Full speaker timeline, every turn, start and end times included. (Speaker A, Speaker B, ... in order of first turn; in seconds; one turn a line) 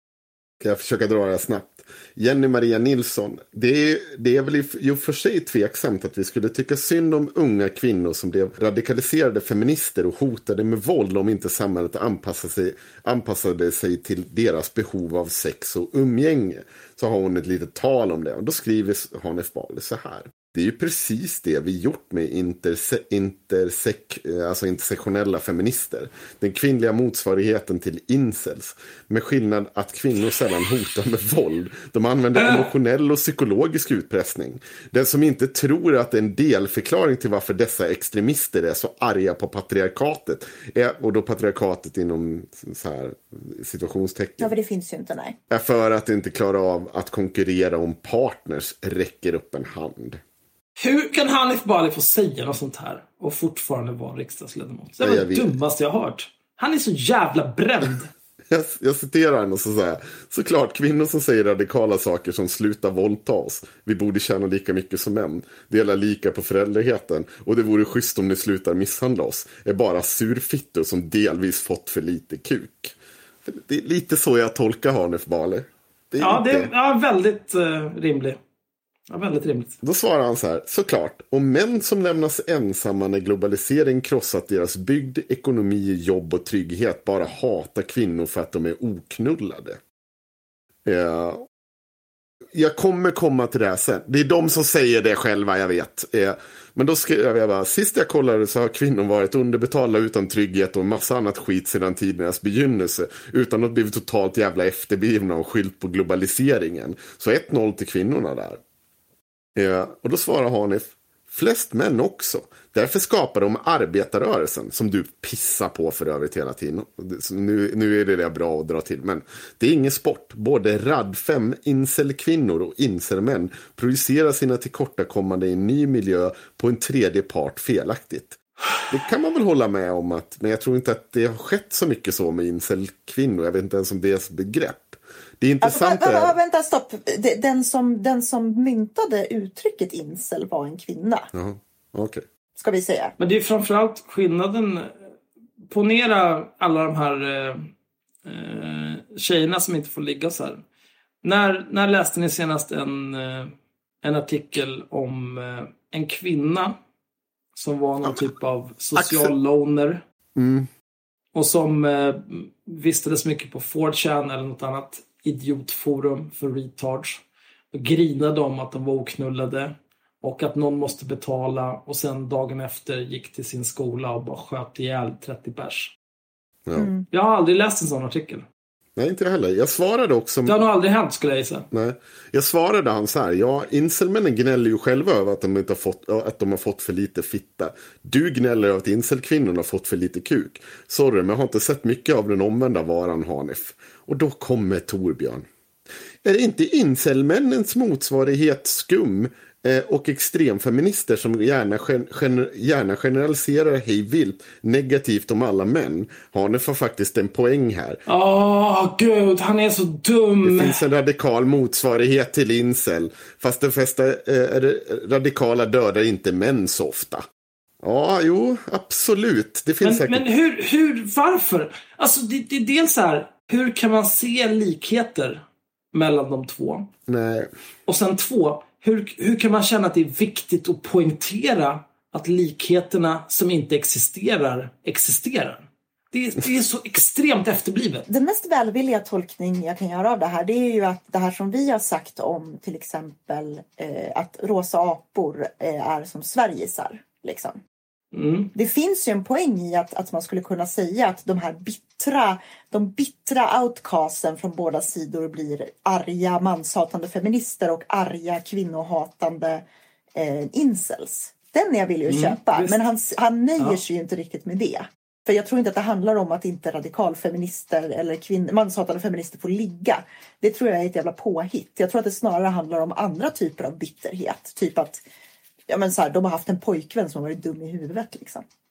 Speaker A: 0.6-44.5
Speaker B: 32.4-32.6
Speaker C: 44.4-45.4
Speaker A: 45.5-50.2
Speaker B: 50.8-58.1
Speaker A: 55.0-55.5
Speaker A: 58.5-76.7
Speaker B: 76.2-78.4
Speaker B: 79.1-79.8
Speaker A: 79.8-89.8
Speaker A: 90.8-91.5
Speaker A: 92.5-108.6
Speaker A: 109.5-136.3
Speaker C: 135.6-141.3
Speaker A: 141.3-142.2
Speaker C: 142.6-143.1
Speaker B: 143.2-145.0
Speaker B: 145.6-147.7
Speaker B: 148.2-150.6
Speaker B: 151.2-156.8
Speaker B: 157.5-160.0
Speaker A: 158.9-159.3
Speaker A: 160.3-160.7
Speaker B: 161.3-175.9
Speaker C: 176.8-177.1
Speaker B: 177.1-178.4
Speaker A: 178.9-180.6
Speaker B: 180.4-181.7
Speaker A: 181.7-195.4
Speaker A: 196.2-208.0
Speaker B: 208.1-210.8
Speaker A: 210.4-217.2
Speaker A: 217.8-220.3
Speaker B: 219.8-226.9
Speaker A: 227.1-227.5
Speaker B: 227.9-238.0
Speaker C: 238.1-247.6
Speaker B: 248.1-248.5
Speaker C: 248.5-275.0
Speaker B: 262.1-262.8
Speaker C: 275.7-278.4